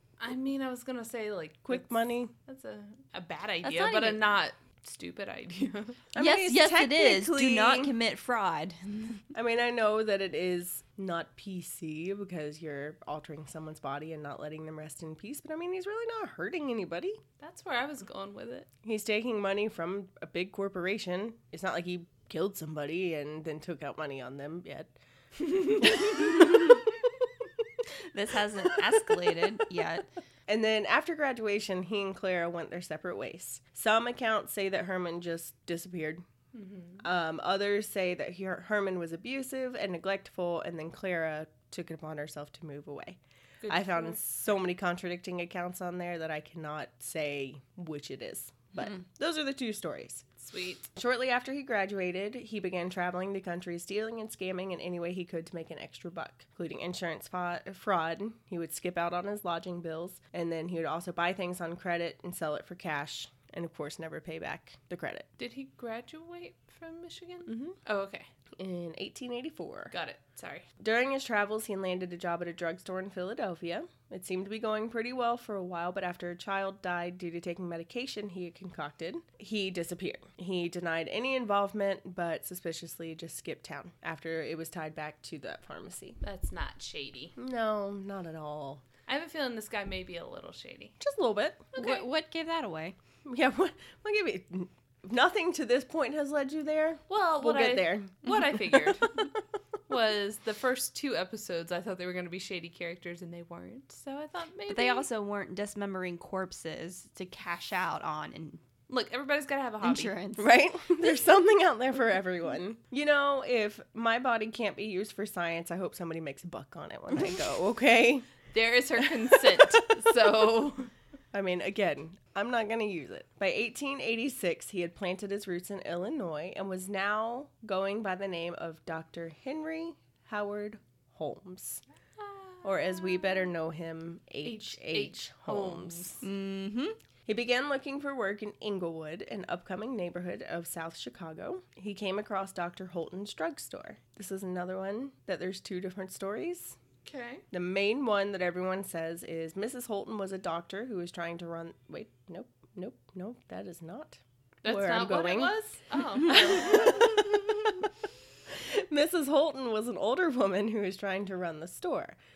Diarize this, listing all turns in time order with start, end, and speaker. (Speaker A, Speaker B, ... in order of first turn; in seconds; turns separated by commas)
Speaker A: 0.2-6.0, Speaker B: 1.6-2.3, Speaker C: 3.6-4.2, Speaker B: 6.1-7.9, Speaker C: 6.2-9.2, Speaker B: 9.3-17.2, Speaker A: 17.4-18.7, Speaker B: 18.8-25.0, Speaker B: 25.8-26.8, Speaker C: 28.1-30.1, Speaker B: 30.5-36.2, Speaker A: 36.5-37.0, Speaker B: 37.0-50.3, Speaker A: 43.6-44.2, Speaker A: 50.4-50.9, Speaker B: 51.0-65.3, Speaker A: 65.4-68.3, Speaker B: 67.5-67.8, Speaker B: 68.6-69.9, Speaker A: 69.9-70.7, Speaker B: 70.8-86.2, Speaker A: 86.2-87.3, Speaker B: 87.4-88.8, Speaker A: 89.1-91.0, Speaker B: 91.0-91.7, Speaker A: 91.8-92.0, Speaker C: 91.8-93.0, Speaker B: 93.2-98.9, Speaker A: 97.1-99.3, Speaker A: 99.9-105.1, Speaker C: 104.7-108.6, Speaker A: 108.9-110.2, Speaker C: 109.8-110.5, Speaker B: 110.4-118.3, Speaker A: 118.5-120.9, Speaker B: 119.3-119.9, Speaker B: 121.3-131.8, Speaker A: 132.2-133.5, Speaker B: 132.6-136.2, Speaker A: 134.4-136.2, Speaker C: 136.2-137.0, Speaker B: 137.3-146.8, Speaker A: 147.1-147.4, Speaker B: 147.5-155.6, Speaker A: 154.6-157.2, Speaker B: 156.2-157.9, Speaker B: 158.5-162.2